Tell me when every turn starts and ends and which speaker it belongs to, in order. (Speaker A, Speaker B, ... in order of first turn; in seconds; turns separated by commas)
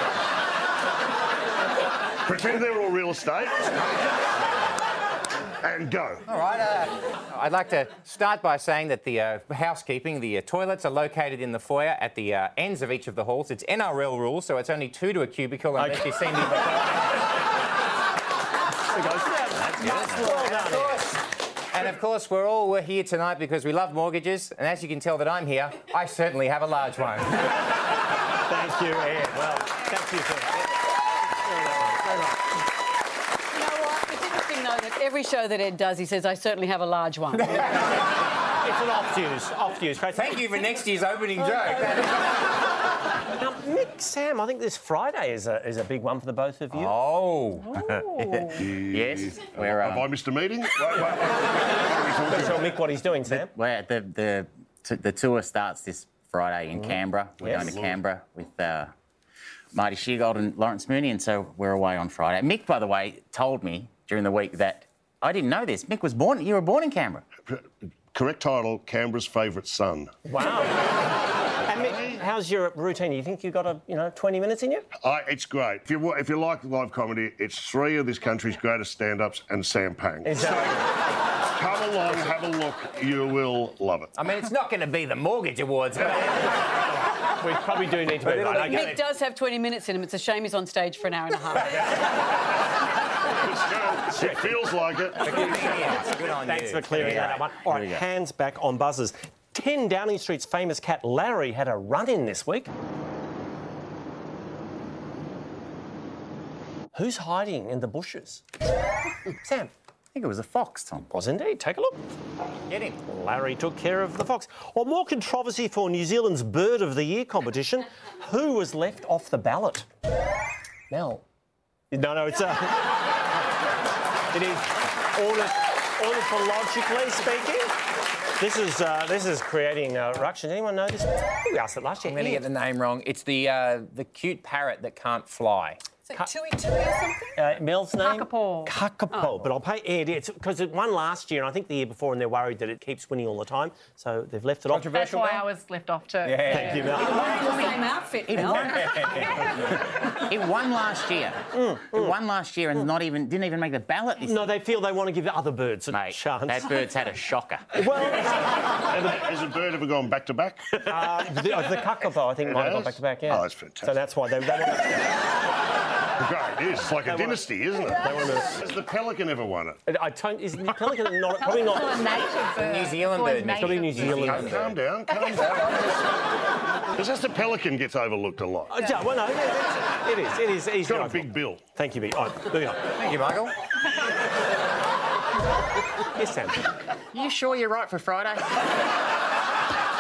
Speaker A: 2.3-3.8, Speaker A: 5.6-6.2, Speaker B: 6.3-17.0, Speaker C: 15.8-16.2, Speaker C: 18.9-21.0, Speaker B: 19.8-27.5, Speaker C: 28.5-30.7, Speaker C: 31.3-32.4, Speaker D: 33.5-37.7, Speaker C: 38.6-40.4, Speaker B: 40.1-42.2, Speaker C: 43.4-47.0, Speaker B: 46.7-47.8, Speaker E: 47.7-48.6, Speaker A: 48.6-52.7, Speaker F: 48.9-50.1, Speaker C: 52.3-53.5, Speaker F: 53.3-58.9, Speaker C: 56.8-57.7, Speaker A: 57.4-58.0, Speaker F: 59.7-67.2, Speaker A: 67.5-70.1, Speaker C: 70.3-70.9, Speaker C: 71.7-74.9, Speaker A: 75.0-80.7, Speaker C: 80.2-80.9, Speaker A: 81.5-84.2, Speaker B: 84.2-86.7, Speaker C: 86.9-89.0, Speaker B: 88.2-88.7, Speaker D: 88.7-91.8, Speaker A: 93.3-95.4, Speaker C: 94.2-94.6, Speaker B: 95.2-97.4, Speaker C: 95.3-102.7, Speaker F: 97.0-98.0, Speaker C: 106.9-108.4, Speaker C: 109.4-109.7, Speaker F: 110.1-111.1, Speaker C: 111.1-112.0, Speaker B: 112.7-113.0, Speaker C: 113.1-119.9, Speaker C: 120.9-121.2, Speaker C: 121.9-122.9, Speaker C: 124.3-127.7, Speaker C: 128.4-132.5, Speaker B: 132.1-135.8, Speaker D: 136.1-137.4, Speaker C: 137.3-145.4, Speaker E: 138.0-138.5, Speaker B: 144.7-145.2, Speaker E: 144.8-146.9, Speaker B: 146.3-146.7, Speaker C: 146.4-147.4, Speaker D: 146.9-149.1, Speaker F: 148.3-148.7, Speaker B: 148.7-149.2, Speaker F: 150.2-154.5, Speaker C: 151.5-152.2, Speaker C: 154.2-156.9, Speaker F: 155.9-157.8, Speaker C: 157.7-158.4, Speaker A: 158.9-161.0, Speaker C: 160.8-165.2, Speaker A: 162.4-164.0, Speaker A: 166.2-169.8, Speaker C: 167.0-168.5, Speaker C: 169.9-172.0, Speaker E: 171.4-174.2, Speaker B: 172.6-174.6, Speaker C: 173.5-174.7, Speaker A: 174.2-176.0, Speaker A: 177.0-178.8, Speaker C: 178.7-182.9, Speaker A: 180.8-181.6, Speaker B: 183.0-183.5, Speaker C: 186.2-186.6, Speaker F: 187.1-188.6